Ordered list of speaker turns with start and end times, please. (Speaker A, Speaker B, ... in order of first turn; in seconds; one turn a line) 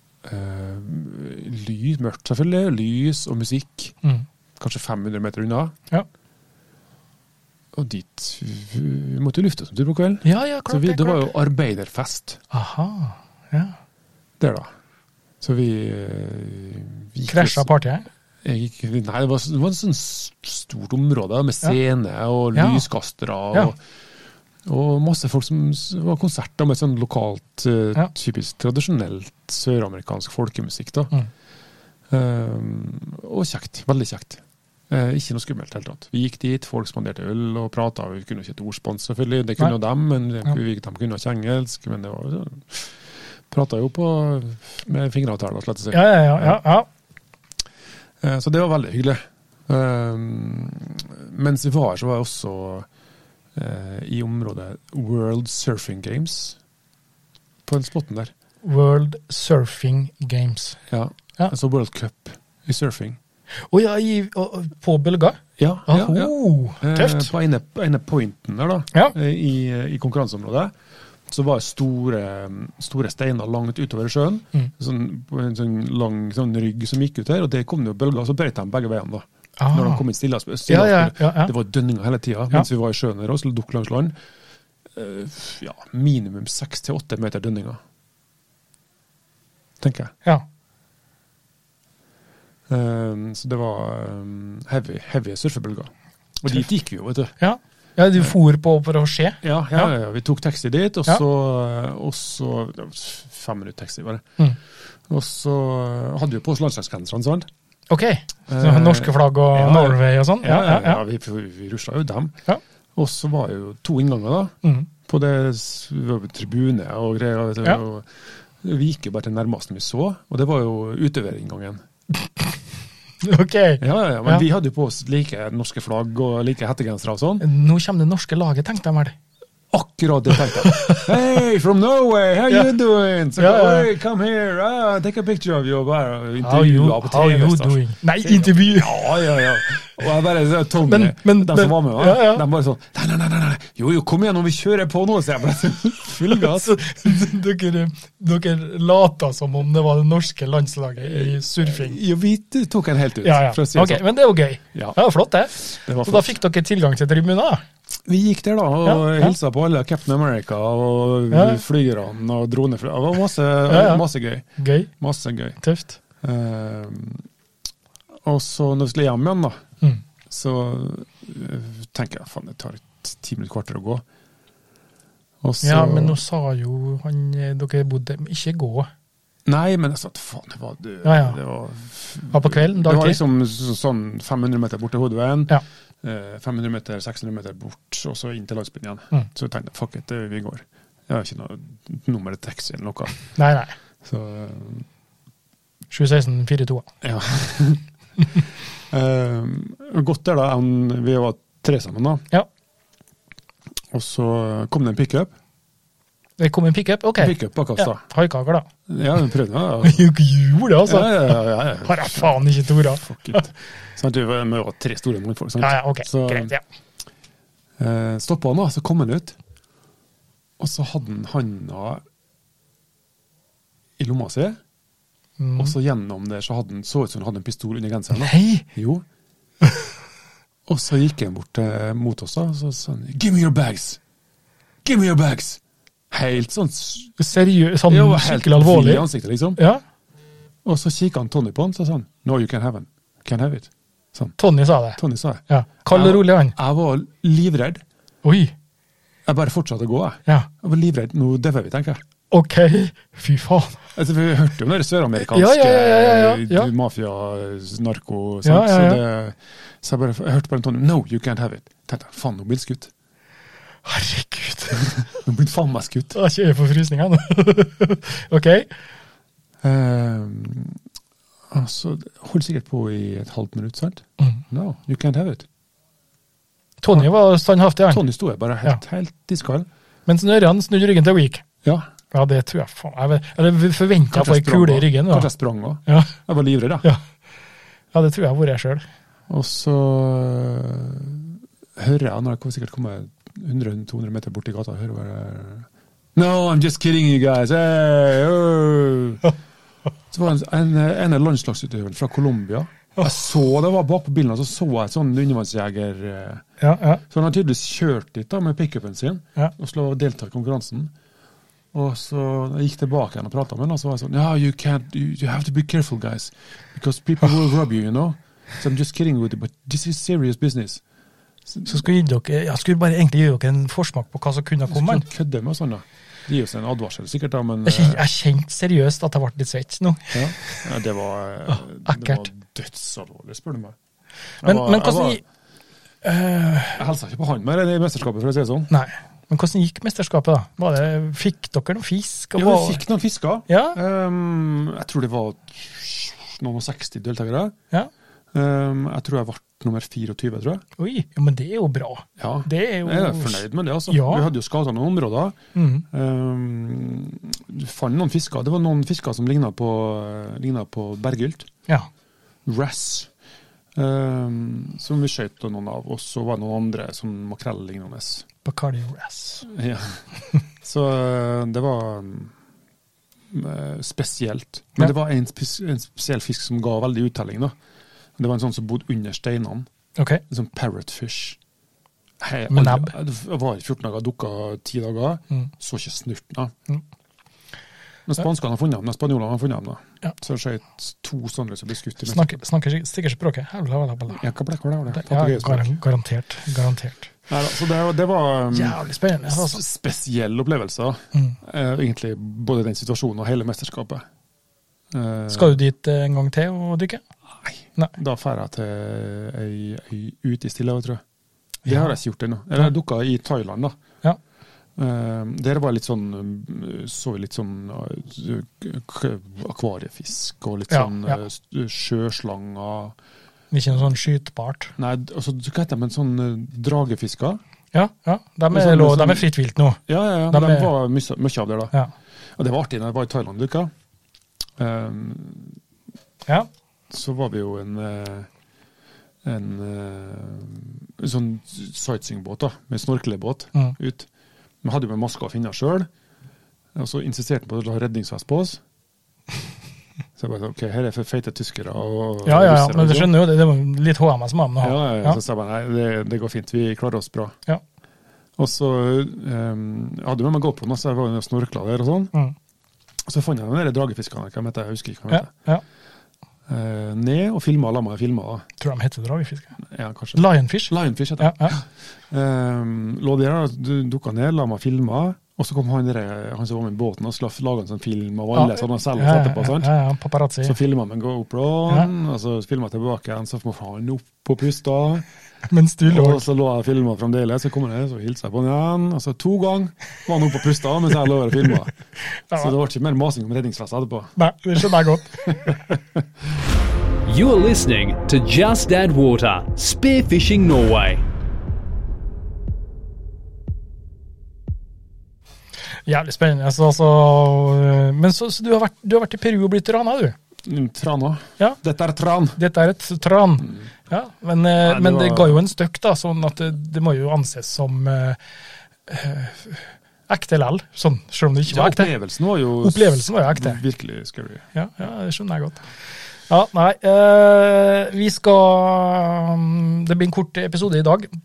Speaker A: 0.2-4.0
Speaker A: 4.6-5.8
Speaker A: 7.7-12.4
Speaker B: 10.2-11.3
Speaker B: 12.5-13.8
Speaker A: 14.4-14.7
Speaker A: 15.4-17.7
Speaker B: 17.3-18.1
Speaker A: 18.4-23.8
Speaker B: 22.6-22.9
Speaker A: 24.6-31.1
Speaker A: 32.1-46.6
Speaker B: 45.9-46.9
Speaker A: 48.2-52.9
Speaker A: 53.5-56.6
Speaker A: 57.6-58.3
Speaker B: 58.6-60.8
Speaker A: 60.9-63.2
Speaker B: 63.7-67.3
Speaker A: 65.6-70.7
Speaker A: 71.3-84.2
Speaker B: 79.6-80.0
Speaker B: 80.7-81.5
Speaker A: 84.9-87.8
Speaker A: 89.8-90.1
Speaker A: 92.7-97.3
Speaker B: 97.4-99.9
Speaker A: 99.4-104.3
Speaker A: 105.1-107.5
Speaker B: 107.9-111.0
Speaker A: 108.5-112.4
Speaker A: 113.0-121.8
Speaker B: 123.2-124.4
Speaker A: 123.8-127.4
Speaker B: 127.4-129.2
Speaker A: 129.7-147.3
Speaker B: 130.5-131.1
Speaker B: 133.4-133.9
Speaker B: 136.4-139.3
Speaker B: 140.9-142.4
Speaker B: 146.3-152.0
Speaker A: 151.0-154.1
Speaker B: 153.2-157.6
Speaker A: 154.7-155.0
Speaker A: 155.5-156.3
Speaker A: 158.1-164.5
Speaker B: 158.8-159.3
Speaker B: 161.3-161.6
Speaker B: 163.7-164.0
Speaker B: 164.6-164.9
Speaker A: 165.0-165.6
Speaker B: 165.6-166.0
Speaker A: 166.2-167.3
Speaker A: 168.2-169.6
Speaker A: 170.3-174.0
Speaker A: 175.4-176.2
Speaker B: 175.6-178.9
Speaker A: 179.5-193.4
Speaker B: 181.0-181.4
Speaker B: 182.3-183.2
Speaker B: 193.4-193.8
Speaker A: 194.0-194.9
Speaker B: 195.9-196.9
Speaker A: 197.0-197.8
Speaker A: 198.4-202.2
Speaker A: 203.9-205.3
Speaker B: 206.4-208.7
Speaker A: 207.2-208.0
Speaker A: 208.9-210.1
Speaker B: 209.8-213.4
Speaker A: 210.8-216.5
Speaker B: 215.6-216.6
Speaker A: 217.8-219.4
Speaker A: 220.6-222.0
Speaker A: 224.0-224.6
Speaker B: 225.4-225.8
Speaker A: 225.6-229.1
Speaker B: 228.1-228.7
Speaker A: 230.7-234.0
Speaker A: 234.8-235.6
Speaker A: 236.1-237.1
Speaker B: 237.2-239.8
Speaker A: 237.9-239.6
Speaker A: 240.6-244.4
Speaker B: 244.4-246.6
Speaker A: 245.0-247.8
Speaker B: 248.2-248.5
Speaker A: 249.3-252.0
Speaker B: 252.3-253.8
Speaker A: 253.9-262.9
Speaker B: 255.2-256.7
Speaker B: 258.4-259.0
Speaker B: 263.9-265.0
Speaker A: 264.7-266.2
Speaker B: 266.1-268.7
Speaker A: 269.6-270.8
Speaker A: 271.5-275.5
Speaker B: 276.8-278.1
Speaker A: 277.9-279.7
Speaker B: 280.1-281.4
Speaker A: 281.6-281.9
Speaker B: 282.1-285.3
Speaker A: 284.1-286.9
Speaker B: 285.9-286.2
Speaker B: 287.9-288.9
Speaker A: 289.3-299.2
Speaker A: 300.1-306.4
Speaker B: 306.6-307.0
Speaker A: 307.0-310.9
Speaker A: 311.7-320.8
Speaker A: 321.5-321.9
Speaker B: 321.7-325.1
Speaker A: 324.7-328.1
Speaker B: 327.6-330.7
Speaker A: 330.1-333.8
Speaker B: 331.5-332.3
Speaker A: 334.4-335.2
Speaker B: 334.4-335.2
Speaker B: 336.0-336.8
Speaker A: 336.8-338.7
Speaker B: 338.7-342.8
Speaker A: 342.4-347.6
Speaker B: 343.5-343.8
Speaker A: 348.3-350.6
Speaker B: 350.8-354.3
Speaker A: 352.2-355.4
Speaker B: 355.6-355.9
Speaker A: 355.9-361.5
Speaker A: 362.4-363.1
Speaker A: 363.8-368.3
Speaker B: 368.4-369.5
Speaker A: 369.5-372.4
Speaker A: 373.3-377.6
Speaker A: 378.2-379.7
Speaker B: 380.0-380.2
Speaker A: 380.3-381.4
Speaker A: 382.2-386.5
Speaker B: 382.5-382.9
Speaker A: 388.1-392.4
Speaker B: 392.1-394.2
Speaker A: 394.1-395.8
Speaker B: 394.9-397.1
Speaker A: 397.3-404.1
Speaker B: 398.5-399.6
Speaker A: 404.9-405.6
Speaker B: 405.3-407.0
Speaker A: 407.4-411.0
Speaker B: 411.6-411.9
Speaker A: 411.7-413.8
Speaker A: 414.8-423.0
Speaker B: 420.7-421.2
Speaker B: 423.5-424.7
Speaker A: 424.8-427.4
Speaker B: 427.7-430.7
Speaker A: 428.5-429.3
Speaker A: 429.9-431.7
Speaker A: 432.4-433.7
Speaker A: 434.6-435.6
Speaker A: 436.9-438.3
Speaker A: 439.2-444.1
Speaker A: 444.6-445.9
Speaker A: 446.8-448.6
Speaker A: 450.2-453.3
Speaker B: 452.2-455.2
Speaker A: 454.6-457.4
Speaker A: 458.4-462.1
Speaker A: 463.1-465.3
Speaker B: 465.1-465.6
Speaker A: 466.5-468.5
Speaker B: 468.6-469.6
Speaker A: 469.6-479.7
Speaker B: 470.1-471.6
Speaker B: 478.3-480.6
Speaker A: 480.4-485.1
Speaker B: 485.5-486.2
Speaker A: 485.9-491.7
Speaker B: 492.1-492.5
Speaker A: 492.3-496.1
Speaker B: 494.2-495.6
Speaker C: 497.1-501.0
Speaker B: 505.9-510.2
Speaker A: 510.4-512.4
Speaker B: 512.4-518.2
Speaker A: 514.6-515.4
Speaker B: 518.9-521.9
Speaker A: 521.5-524.5
Speaker B: 522.6-523.6
Speaker B: 524.5-525.6
Speaker B: 526.3-531.1